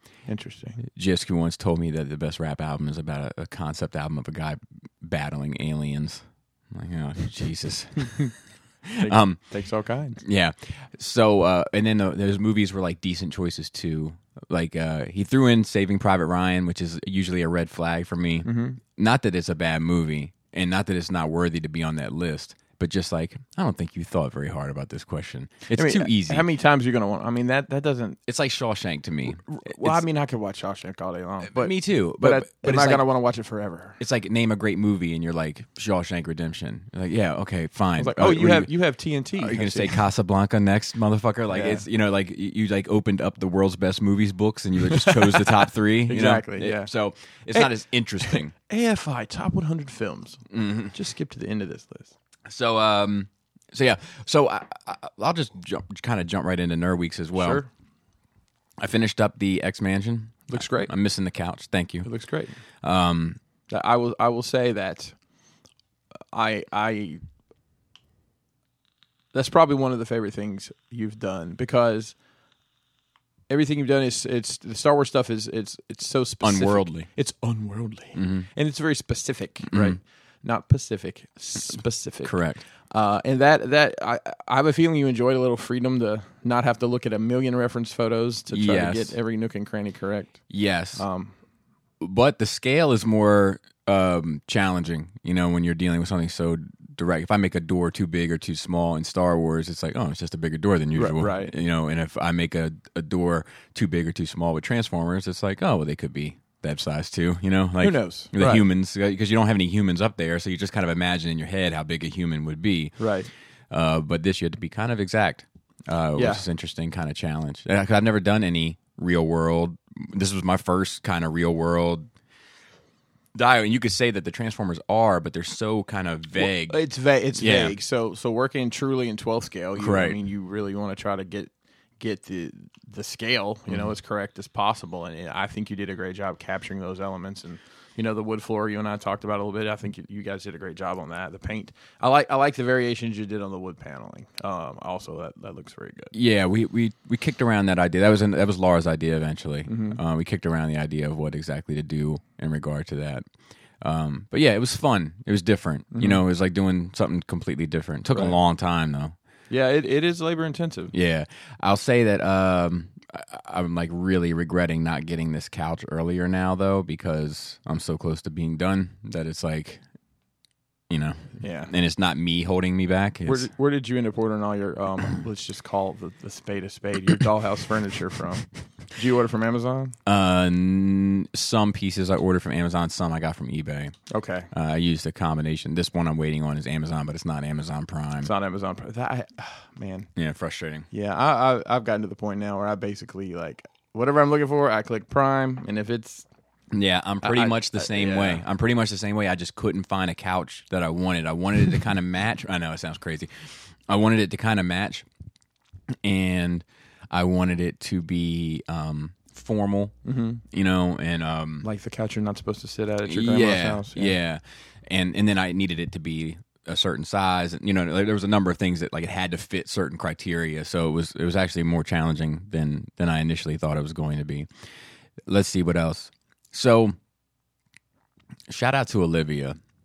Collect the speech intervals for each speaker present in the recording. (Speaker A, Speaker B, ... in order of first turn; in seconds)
Speaker A: 0.2-0.8, 9.0-10.2, 18.4-18.8, 25.7-28.2, 29.4-34.0, 38.0-40.0, 41.5-41.8, 44.9-46.9, 47.5-52.1, 57.4-57.7, 60.5-60.9, 62.0-62.6, 63.7-65.1, 66.3-67.2, 69.3-72.1, 73.5-82.4, 82.9-90.4, 91.0-91.3, 100.9-101.5, 107.8-108.6, 113.0-113.3, 116.2-116.4, 126.4-146.1, 149.7-150.0, 155.9-156.2, 158.1-158.3, 159.5-160.9, 171.4-171.7, 173.2-179.9, 184.1-184.5, 188.2-190.1, 190.9-196.2, 197.2-198.4, 210.0-210.4, 211.6-214.1
Speaker B: 0.8-9.4, 10.2-26.4, 28.3-30.0, 31.5-33.1, 34.0-38.7, 39.4-48.5, 50.5-50.9, 52.5-57.6, 58.8-62.1, 62.8-63.4, 76.4-77.1, 78.1-78.5, 79.7-80.0, 82.2-82.6, 88.5-89.1, 90.5-91.0, 92.0-113.0, 113.7-122.1, 123.3-126.8, 127.4-127.8, 129.8-130.2, 146.1-153.2, 153.8-159.1, 160.9-169.8, 170.9-173.5, 180.1-183.9, 184.5-188.3, 190.2-190.9, 196.7-205.1, 206.0-209.9, 210.5-211.7, 213.0-224.5, 225.3-226.9, 228.5-229.6